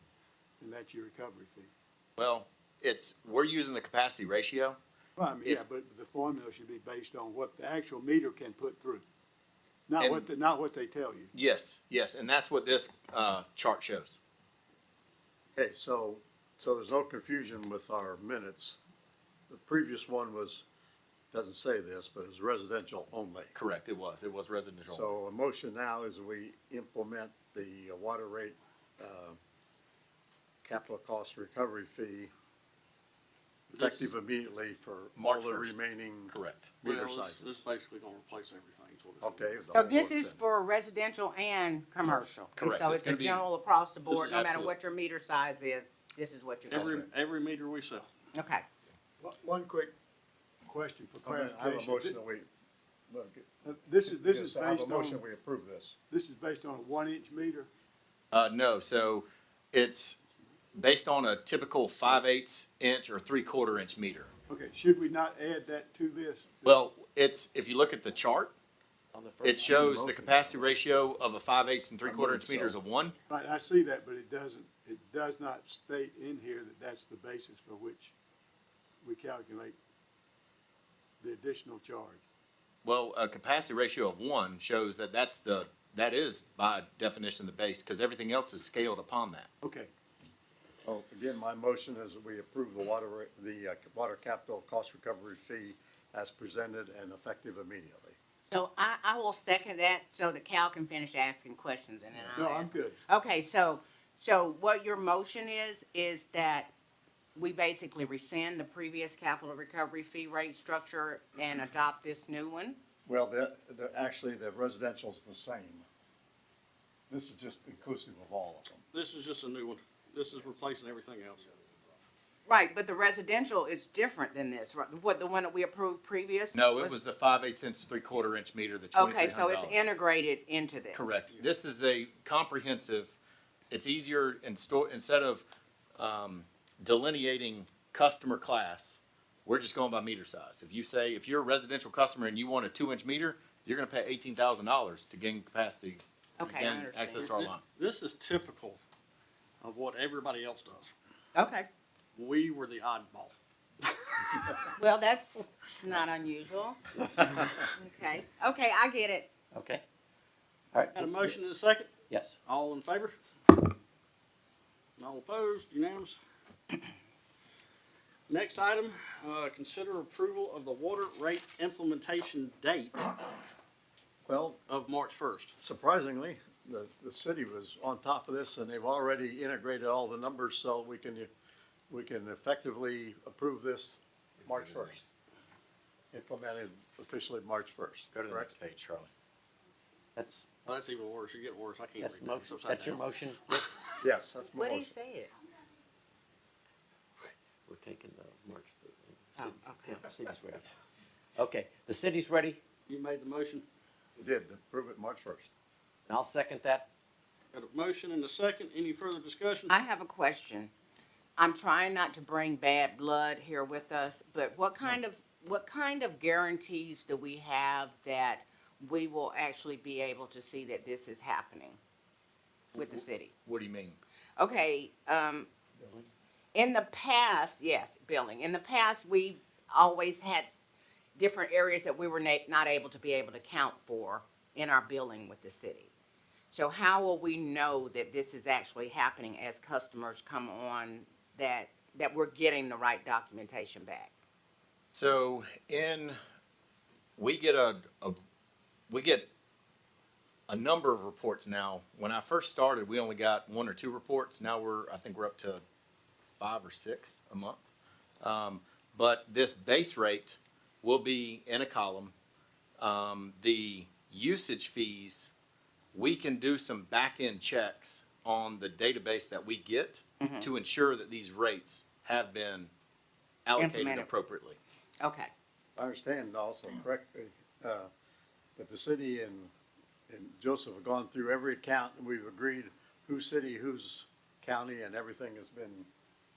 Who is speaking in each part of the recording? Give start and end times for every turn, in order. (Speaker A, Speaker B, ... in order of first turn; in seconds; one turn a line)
Speaker A: 0.6-1.7
Speaker B: 2.2-4.8
Speaker A: 5.2-9.0
Speaker A: 9.9-11.3
Speaker B: 10.0-10.3
Speaker B: 11.3-14.2
Speaker C: 15.5-18.8
Speaker C: 19.5-20.6
Speaker C: 21.3-23.5
Speaker B: 23.5-25.0
Speaker C: 24.9-29.4
Speaker C: 30.6-32.3
Speaker D: 33.7-34.1
Speaker C: 33.7-37.4
Speaker B: 35.1-35.8
Speaker B: 36.3-36.8
Speaker D: 36.8-39.4
Speaker C: 39.2-40.4
Speaker E: 39.7-47.0
Speaker B: 42.5-43.4
Speaker B: 44.3-44.7
Speaker D: 46.7-48.1
Speaker E: 48.3-48.6
Speaker A: 49.2-49.9
Speaker A: 50.6-52.1
Speaker C: 51.2-52.5
Speaker C: 53.1-53.5
Speaker A: 53.6-55.2
Speaker C: 54.0-56.0
Speaker A: 56.1-57.7
Speaker B: 58.3-60.2
Speaker B: 60.7-64.3
Speaker A: 64.5-66.8
Speaker B: 66.6-68.5
Speaker F: 69.1-70.8
Speaker B: 69.4-73.2
Speaker C: 72.0-72.7
Speaker A: 73.3-78.1
Speaker A: 79.0-79.8
Speaker A: 81.2-82.2
Speaker B: 82.8-89.5
Speaker A: 89.6-89.9
Speaker C: 90.8-98.2
Speaker E: 98.5-106.7
Speaker C: 102.1-102.4
Speaker A: 102.3-103.0
Speaker E: 107.3-112.8
Speaker C: 113.0-115.8
Speaker C: 117.1-118.8
Speaker D: 118.9-121.5
Speaker E: 122.5-127.0
Speaker B: 126.5-129.8
Speaker E: 128.9-131.1
Speaker B: 130.9-133.1
Speaker B: 133.7-147.6
Speaker E: 146.4-147.5
Speaker D: 147.7-148.8
Speaker D: 149.6-150.9
Speaker E: 151.3-151.7
Speaker D: 152.1-153.3
Speaker E: 154.8-156.8
Speaker F: 157.0-157.6
Speaker E: 157.6-159.3
Speaker F: 159.5-159.8
Speaker F: 160.7-161.3
Speaker D: 160.9-163.1
Speaker F: 162.1-162.3
Speaker D: 165.0-166.2
Speaker D: 168.3-173.1
Speaker C: 174.2-174.6
Speaker D: 174.7-175.5
Speaker C: 175.6-181.3
Speaker C: 181.9-185.1
Speaker B: 184.4-185.0
Speaker C: 186.1-188.5
Speaker B: 188.1-189.1
Speaker F: 190.2-190.5
Speaker D: 190.6-193.0
Speaker F: 192.0-193.6
Speaker C: 194.0-194.9
Speaker E: 194.5-195.3
Speaker F: 197.7-200.7
Speaker E: 199.4-199.9
Speaker F: 201.4-202.6
Speaker D: 202.9-203.7
Speaker C: 204.2-205.5
Speaker F: 206.1-206.9
Speaker D: 207.5-209.7
Speaker E: 209.7-210.7
Speaker E: 211.4-221.8
Speaker E: 222.7-223.3
Speaker B: 222.9-224.0
Speaker E: 224.4-225.5
Speaker E: 226.5-230.6
Speaker E: 231.2-235.9
Speaker E: 236.5-244.1
Speaker B: 244.9-246.2
Speaker B: 247.2-248.2
Speaker B: 248.9-249.3
Speaker B: 250.5-255.6
Speaker B: 256.4-257.6
Speaker B: 258.2-262.1
Speaker B: 262.8-265.3
Speaker B: 265.9-272.7
Speaker E: 270.2-270.5
Speaker B: 273.4-274.6
Speaker E: 273.6-274.1
Speaker E: 275.0-275.3
Speaker C: 275.8-277.9
Speaker C: 278.6-279.5
Speaker C: 280.1-285.9